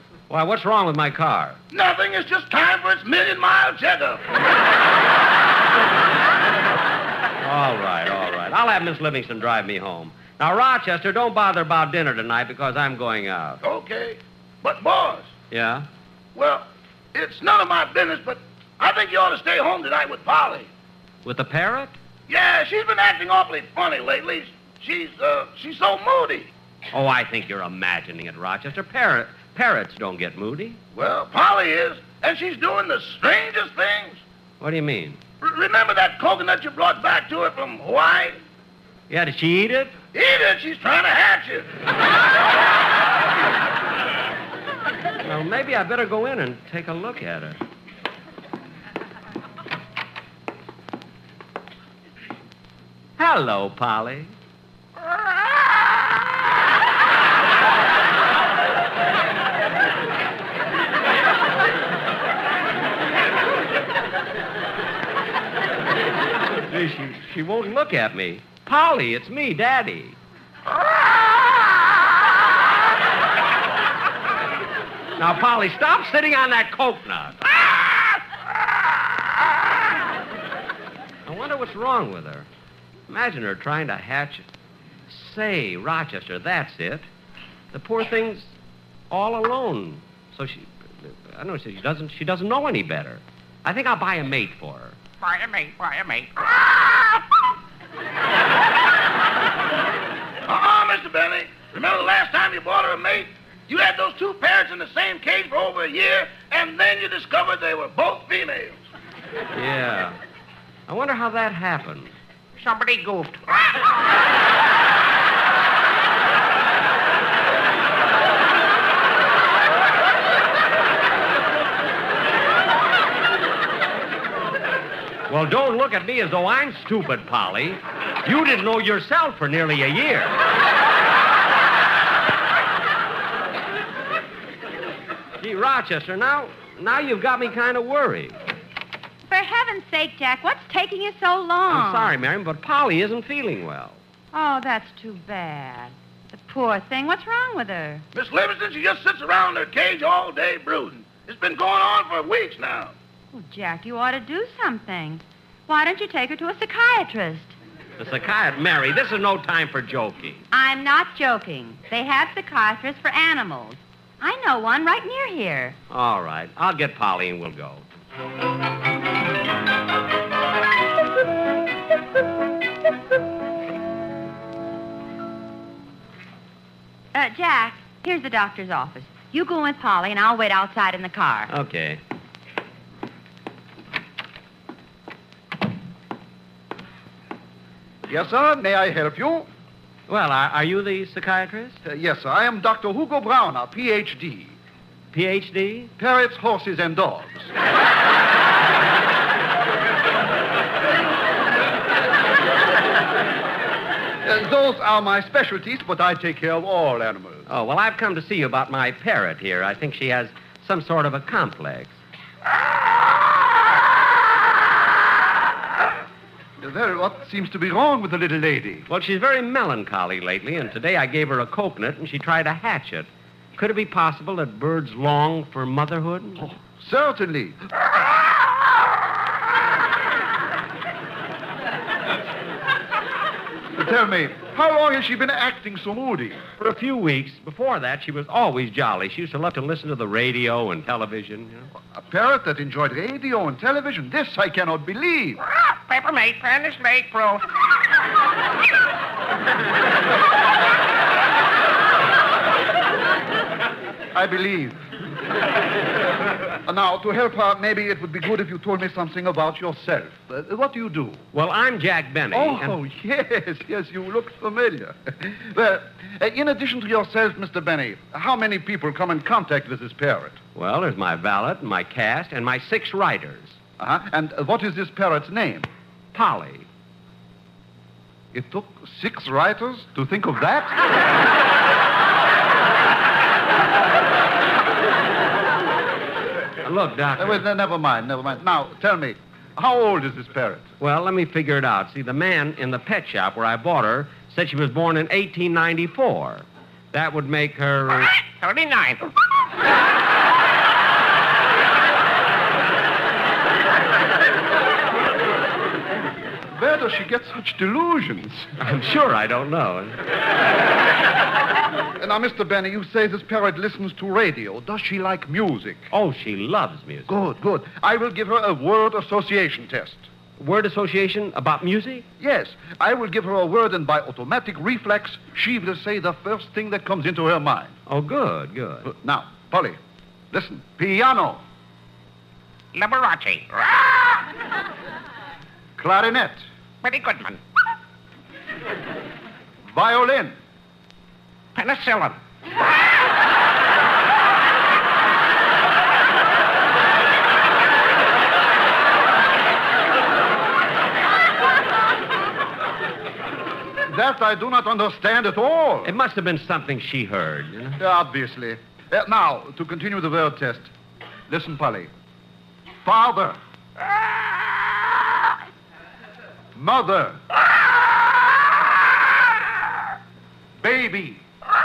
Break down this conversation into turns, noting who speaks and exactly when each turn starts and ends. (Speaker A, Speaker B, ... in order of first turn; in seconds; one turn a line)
Speaker A: 0.3-1.6
Speaker B: 1.7-4.2
Speaker A: 7.4-13.6
Speaker B: 13.6-15.3
Speaker A: 15.5-15.9
Speaker B: 16.4-20.7
Speaker A: 21.2-21.9
Speaker B: 22.3-26.5
Speaker A: 26.9-30.8
Speaker B: 30.9-34.2
Speaker A: 34.6-35.2
Speaker B: 35.4-38.4
Speaker A: 39.1-39.9
Speaker B: 40.1-41.7
Speaker A: 45.2-47.6
Speaker A: 53.2-54.3
Speaker A: 66.6-70.2
Speaker A: 75.2-77.6
Speaker A: 81.2-82.5
Speaker A: 83.1-84.4
Speaker A: 85.1-87.1
Speaker A: 87.7-88.5
Speaker A: 89.1-95.0
Speaker C: 95.2-96.3
Speaker B: 100.5-108.8
Speaker A: 109.5-110.2
Speaker A: 110.9-112.1
Speaker C: 112.6-113.8
Speaker A: 125.3-130.3
Speaker A: 135.4-138.4
Speaker D: 139.3-142.1
Speaker A: 141.7-144.0
Speaker D: 144.3-148.0
Speaker B: 148.1-152.9
Speaker D: 153.3-157.6
Speaker A: 158.0-160.4
Speaker D: 160.5-165.8
Speaker A: 165.9-167.8
Speaker D: 177.1-181.5
Speaker A: 181.5-182.0
Speaker E: 188.1-189.5
Speaker A: 190.1-191.8
Speaker E: 191.8-194.6
Speaker A: 195.1-195.9
Speaker E: 196.0-197.5
Speaker E: 204.2-207.5
Speaker A: 207.5-212.0
Speaker E: 216.6-218.9
Speaker A: 218.9-226.5
Speaker E: 226.4-227.6
Speaker E: 233.7-236.4
Speaker A: 236.6-241.7
Speaker E: 241.9-245.4
Speaker C: 245.7-247.4
Speaker E: 254.1-254.8
Speaker E: 256.6-261.2
Speaker A: 261.3-262.8
Speaker E: 262.3-270.4
Speaker A: 270.6-273.6
Speaker E: 273.8-275.7
Speaker A: 276.1-276.7
Speaker E: 278.3-280.8
Speaker A: 286.6-287.4
Speaker E: 287.2-290.7
Speaker A: 290.8-298.1
Speaker C: 298.3-299.1
Speaker E: 306.5-308.5
Speaker A: 308.6-310.0
Speaker E: 312.0-315.9
Speaker A: 315.9-317.1
Speaker E: 317.1-320.1
Speaker A: 320.4-322.1
Speaker E: 322.2-327.7
Speaker A: 327.9-328.9
Speaker E: 328.8-329.8
Speaker E: 330.3-331.4
Speaker C: 332.7-334.0
Speaker E: 335.8-336.4
Speaker C: 336.8-337.4
Speaker E: 339.6-340.4
Speaker C: 341.6-342.2
Speaker E: 353.9-355.9
Speaker A: 355.8-357.8
Speaker E: 357.8-360.7
Speaker E: 361.3-361.9
Speaker E: 362.9-363.4
Speaker E: 366.6-367.2
Speaker E: 370.6-371.2